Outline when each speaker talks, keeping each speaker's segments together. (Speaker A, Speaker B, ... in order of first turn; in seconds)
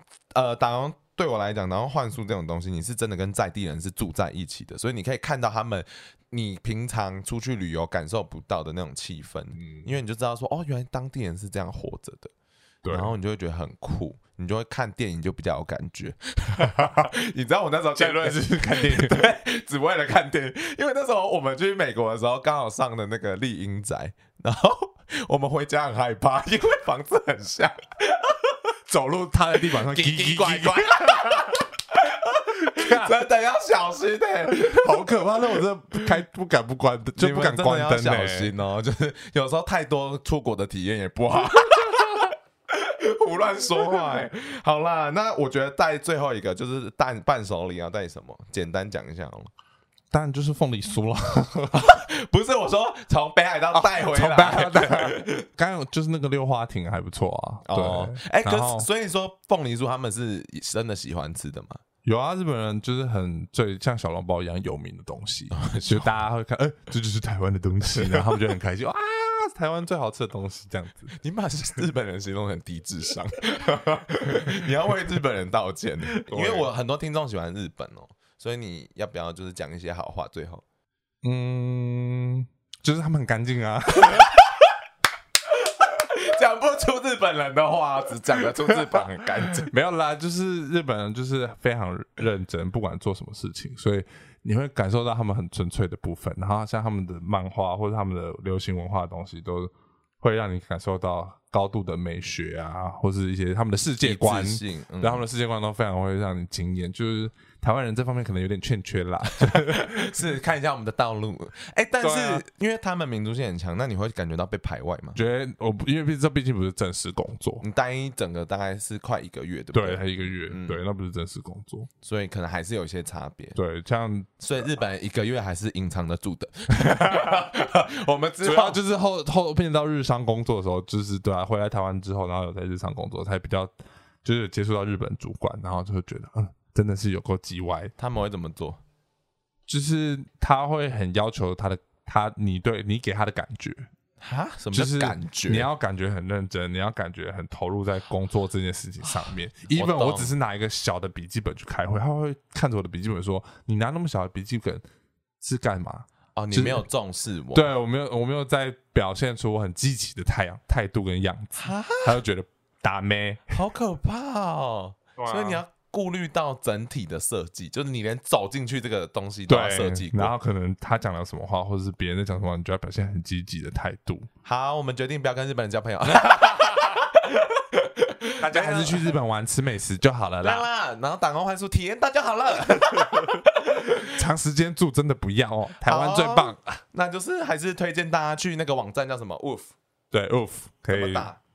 Speaker A: 0.3-12.3, 12.9-28.6, 29.6-35.2, 37.2-49.5, 51.7-55.4, 57.6-61.8, 65.5-66.1, 68.0-68.3, 71.1-80.6, 85.7-89.7, 104.0-105.2, 109.4-115.2, 117.6-120.8, 122.0-123.6, 124.4-128.8, 138.0-138.8, 144.2-145.7, 149.7-150.3, 156.4-157.7, 161.6-162.2, 163.5-170.3, 174.4-179.2, 180.4-184.1, 185.8-189.7, 190.9-191.4
Speaker B: 9.6-9.9, 12.8-13.1, 16.6-17.1, 18.0-19.3, 28.9-31.6, 32.7-33.1, 34.5-38.5, 50.1-51.9, 53.7-58.9, 62.0-71.1, 76.2-76.7, 81.2-84.3, 89.6-99.7, 100.2-110.1, 112.0-112.4, 115.2-117.6, 119.7-121.9, 123.5-124.3, 128.4-133.7, 134.2-137.9, 139.7-143.9, 144.7-154.8, 155.4-156.8, 157.5-163.5, 165.2-165.6, 169.5-174.3, 178.4-180.7, 184.1-186.8, 190.1-191.3